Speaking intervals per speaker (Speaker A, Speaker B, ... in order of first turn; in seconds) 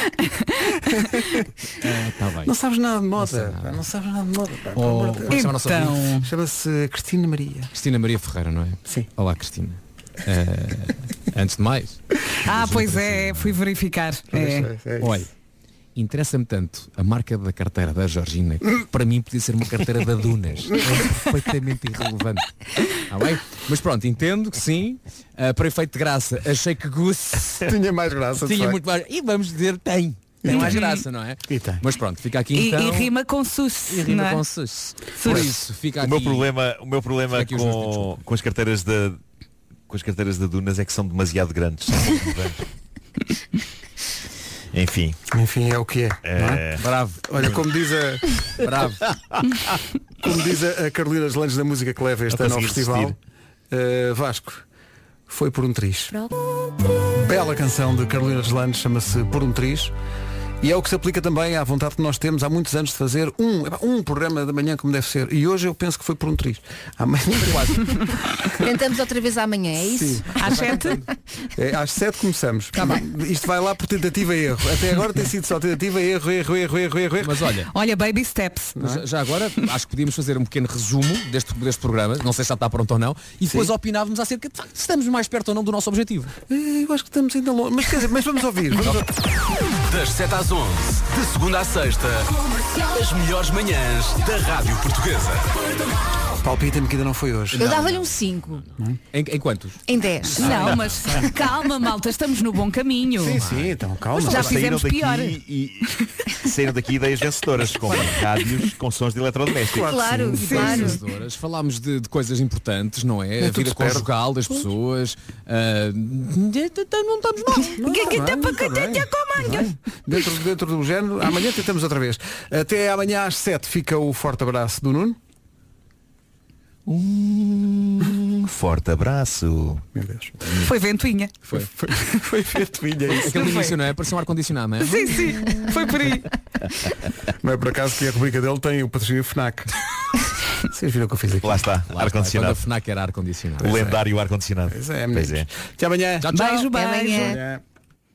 Speaker A: 0.9-1.4, 2.4-5.5, 6.2-7.7, 14.3-15.2, 27.6-28.8, 30.4-30.8, 31.5-31.8, 35.2-35.5, 45.3-46.7, 47.3-48.3, 50.2-53.2, 53.7-54.6, 55.3-56.2, 57.1-59.9, 60.6-68.6, 69.8-70.4, 71.5-77.4, 78.8-79.0, 83.5-83.7, 86.5-89.1, 96.4-97.6, 100.6-101.3, 103.2-104.7, 109.7-111.0, 113.4-114.6, 117.8-125.2, 129.9-130.3, 131.5-133.5, 137.4-139.7, 140.7-141.6, 143.6-144.0, 144.7-147.6
Speaker B: 1.8-2.5, 3.2-3.8, 4.7-6.0, 7.7-13.6, 15.0-15.3, 15.9-27.7, 28.4-33.1, 33.9-36.5, 37.3-38.2, 46.8-47.6, 48.6-49.0, 67.4-67.8, 70.4-71.1, 77.2-77.7, 78.8-86.3, 97.5-99.8, 100.3-101.2, 103.3-103.8, 107.6-108.2, 110.4-117.9, 130.4-130.7, 133.2-135.1, 141.9-143.9, 146.2-146.6
Speaker C: 5.3-6.3, 12.4-14.7, 30.4-31.0, 32.5-34.4, 35.2-35.5, 70.3-71.0, 77.7-78.8, 100.4-103.4, 104.2-105.4, 117.8-119.7, 130.6-131.3, 133.2-133.8, 134.8-136.3, 146.3-147.4
Speaker D: 36.0-39.2, 39.9-42.6, 44.7-45.1, 46.2-46.8, 49.1-49.4, 52.3-53.1, 104.3-110.0, 126.9-129.8, 141.4-142.6, 143.6-145.5
Speaker E: 68.6-70.3, 97.5-98.6, 99.9-100.8, 109.7-111.0, 146.7-147.4
Speaker F: 89.9-92.3, 92.9-95.5